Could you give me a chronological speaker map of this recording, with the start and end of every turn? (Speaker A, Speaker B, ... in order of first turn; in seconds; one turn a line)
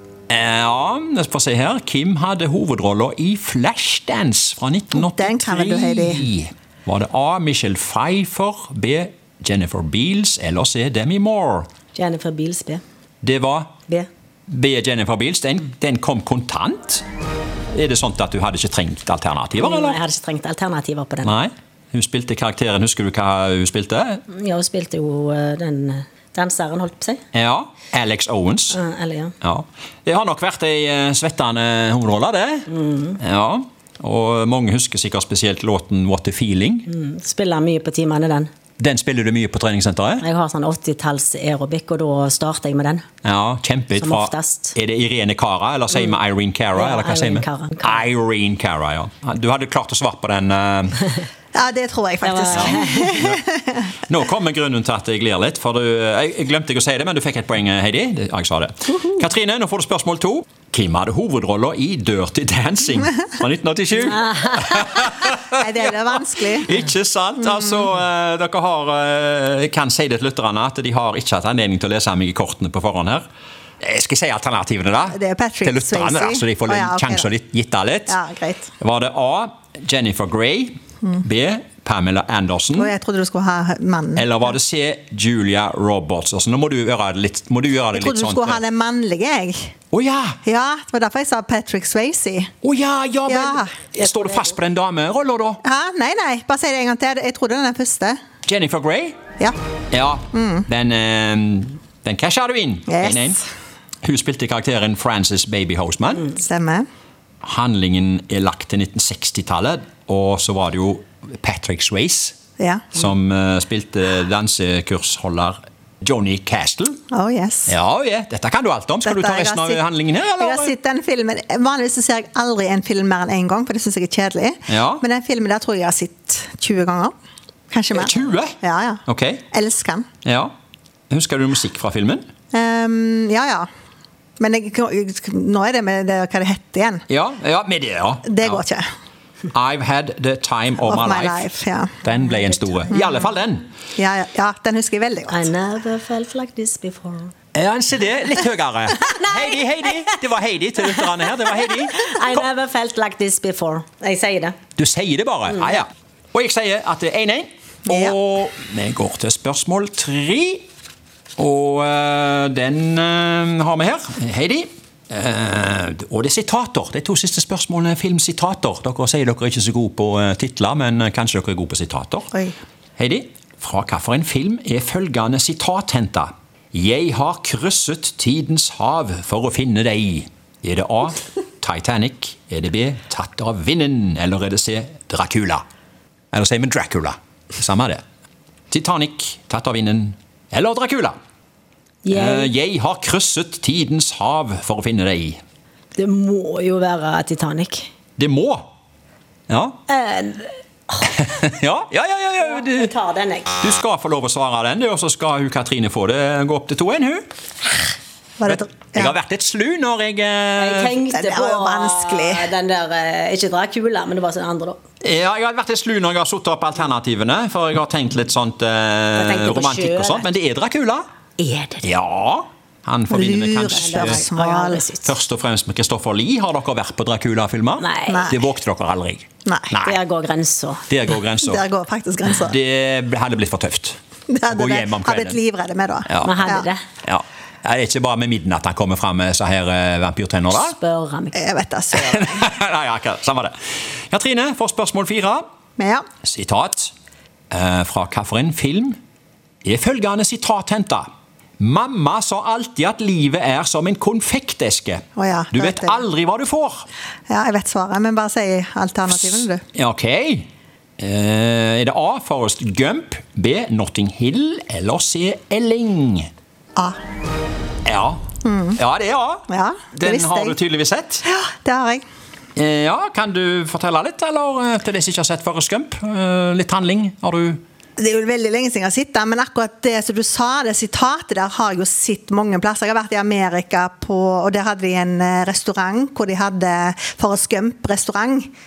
Speaker A: 0.3-11.7
Speaker B: 4.9-6.3
Speaker C: 11.9-12.8
Speaker A: 13.2-13.7
Speaker A: 14.5-17.0
Speaker A: 17.7-20.0
Speaker C: 19.6-21.4
Speaker A: 21.2-24.2
Speaker C: 24.3-27.2
Speaker A: 27.3-28.8
Speaker C: 28.7-29.3
Speaker A: 29.4-36.9
Speaker C: 32.8-33.2
Speaker C: 36.9-38.5
Speaker A: 38.8-40.2
Speaker C: 40.2-43.0
Speaker A: 43.2-51.1
Speaker C: 44.0-44.8
Speaker C: 46.7-48.0
Speaker B: 51.5-53.9
Speaker C: 52.2-53.1
Speaker A: 52.5-53.4
Speaker A: 53.9-73.2
Speaker C: 64.1-65.1
Speaker B: 65.5-66.7
Speaker A: 73.8-78.2
Speaker B: 75.1-77.3
Speaker B: 78.1-78.7
Speaker A: 78.8-82.9
Speaker B: 82.8-84.5
Speaker A: 84.2-88.6
Speaker B: 87.9-89.7
Speaker A: 89.9-90.4
Speaker B: 90.5-92.5
Speaker A: 92.6-95.6
Speaker B: 93.3-93.8
Speaker C: 94.0-94.5
Speaker B: 95.6-98.2
Speaker A: 98.5-99.2
Speaker A: 99.9-103.4
Speaker B: 100.3-100.7
Speaker B: 102.9-103.4
Speaker A: 104.0-106.3
Speaker B: 106.2-106.8
Speaker A: 107.4-112.3
Speaker B: 112.6-112.9
Speaker A: 112.9-117.0
Speaker B: 117.1-117.7
Speaker A: 117.7-120.7
Speaker B: 119.0-119.8
Speaker B: 120.4-127.1
Speaker A: 124.7-125.0
Speaker B: 127.7-130.1
Speaker A: 127.9-128.6
Speaker A: 129.1-129.4
Speaker A: 130.2-130.5
Speaker A: 131.1-132.2
Speaker B: 132.5-133.7
Speaker B: 134.4-137.0
Speaker A: 137.1-138.6
Speaker B: 138.2-138.9
Speaker A: 139.5-141.5
Speaker B: 140.8-142.0
Speaker A: 142.0-143.7
Speaker B: 142.9-143.3
Speaker B: 143.9-145.4
Speaker C: 145.3-147.3
Speaker A: 147.5-152.4
Speaker C: 151.7-154.6
Speaker A: 154.8-160.7
Speaker B: 157.9-158.2
Speaker A: 161.4-172.3
Speaker A: 173.0-185.6
Speaker A: 186.3-188.0
Speaker A: 188.7-191.1
Speaker C: 192.0-192.5
Speaker A: 192.1-195.4
Speaker C: 195.9-197.9
Speaker A: 198.2-198.7
Speaker A: 199.5-199.8
Speaker C: 199.9-201.1
Speaker A: 201.0-202.9
Speaker C: 202.4-203.6
Speaker A: 203.6-207.2
Speaker B: 208.4-209.2
Speaker A: 208.4-211.0
Speaker C: 210.6-214.8
Speaker B: 211.1-212.5
Speaker A: 215.0-221.0
Speaker C: 219.2-220.3
Speaker C: 221.4-221.9
Speaker A: 221.8-224.2
Speaker B: 223.1-224.8
Speaker C: 223.7-225.1
Speaker A: 225.0-230.0
Speaker C: 227.8-228.3
Speaker B: 228.1-228.4
Speaker B: 229.4-229.7
Speaker C: 229.8-230.8
Speaker A: 230.9-231.7
Speaker B: 231.4-232.6
Speaker A: 232.3-235.4
Speaker B: 234.3-236.7
Speaker A: 236.1-236.5
Speaker C: 236.2-236.8
Speaker A: 237.0-240.8
Speaker C: 240.5-241.4
Speaker B: 241.3-242.5
Speaker A: 241.9-243.5
Speaker A: 244.1-245.4
Speaker B: 245.8-246.1
Speaker A: 246.2-246.9
Speaker A: 247.5-249.0
Speaker A: 249.6-251.1
Speaker A: 251.6-256.8
Speaker B: 255.2-256.0
Speaker B: 257.3-259.6
Speaker A: 259.1-260.5
Speaker A: 261.0-266.3
Speaker A: 267.8-268.2
Speaker B: 268.4-268.8
Speaker A: 268.8-271.2
Speaker B: 269.5-270.6
Speaker B: 271.2-272.0
Speaker A: 272.6-277.6
Speaker B: 278.0-288.5